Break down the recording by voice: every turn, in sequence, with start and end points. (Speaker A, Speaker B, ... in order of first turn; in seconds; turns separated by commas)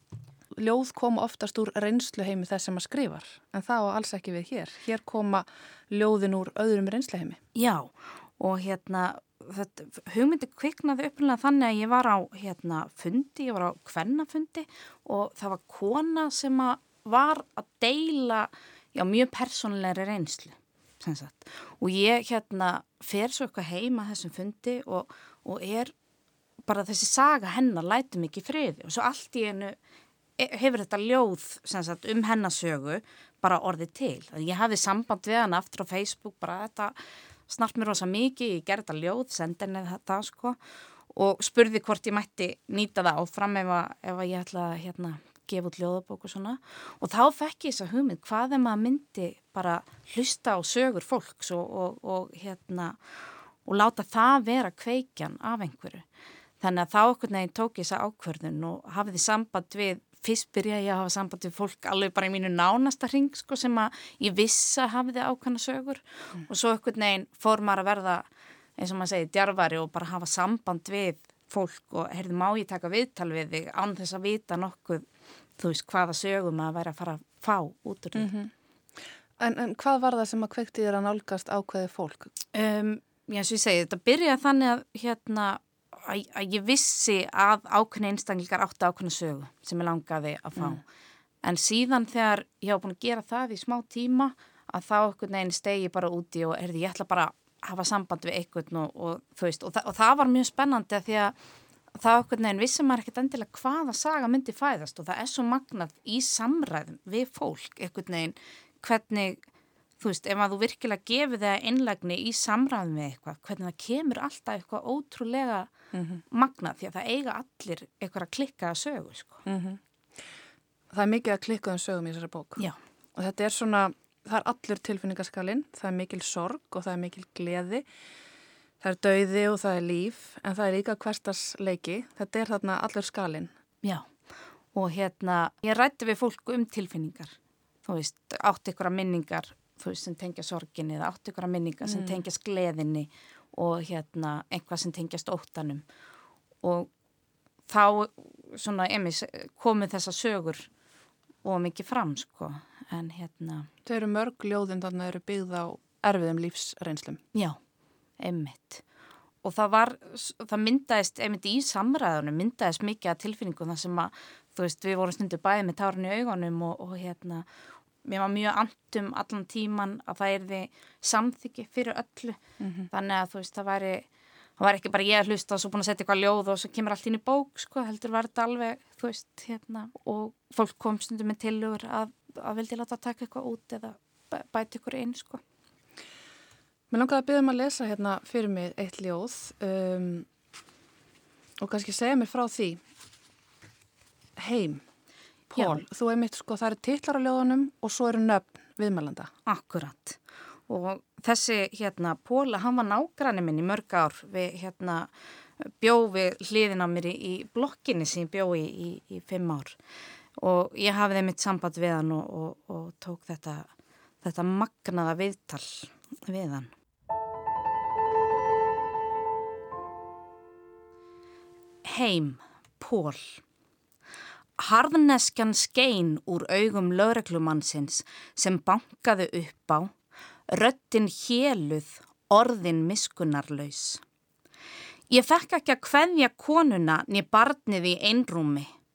Speaker A: 0.5-7.4, Speaker B: 7.5-25.9, Speaker B: 26.6-29.8, Speaker B: 30.4-37.0, Speaker B: 37.5-40.6, Speaker B: 41.1-53.0, Speaker B: 53.6-56.0, Speaker B: 56.6-75.0, Speaker B: 75.6-78.3, Speaker A: 78.1-78.5, Speaker A: 79.4-82.3, Speaker B: 82.5-90.8, Speaker B: 91.4-101.3, Speaker B: 102.0-109.4, Speaker B: 110.0-115.7, Speaker A: 115.9-116.2, Speaker B: 116.3-119.4, Speaker A: 119.5-119.8, Speaker A: 120.9-122.6, Speaker A: 123.1-127.9, Speaker A: 128.8-133.5, Speaker B: 134.7-145.8, Speaker A: 141.9-142.2, Speaker B: 146.6-146.9, Speaker B: 147.7-150.7, Speaker B: 151.4-153.7, Speaker A: 153.8-157.2, Speaker B: 158.2-158.8, Speaker B: 159.4-167.4, Speaker B: 168.0-172.4, Speaker A: 172.6-172.9, Speaker B: 172.9-174.1, Speaker B: 174.6-185.4, Speaker A: 186.9-190.3, Speaker A: 191.6-192.8, Speaker A: 194.4-194.8, Speaker A: 195.5-199.3, Speaker B: 199.4-205.1, Speaker B: 205.6-209.8, Speaker B: 210.4-213.7, Speaker B: 214.2-216.7, Speaker B: 221.8-223.4, Speaker B: 224.6-229.9, Speaker B: 230.5-234.0, Speaker B: 235.1-238.7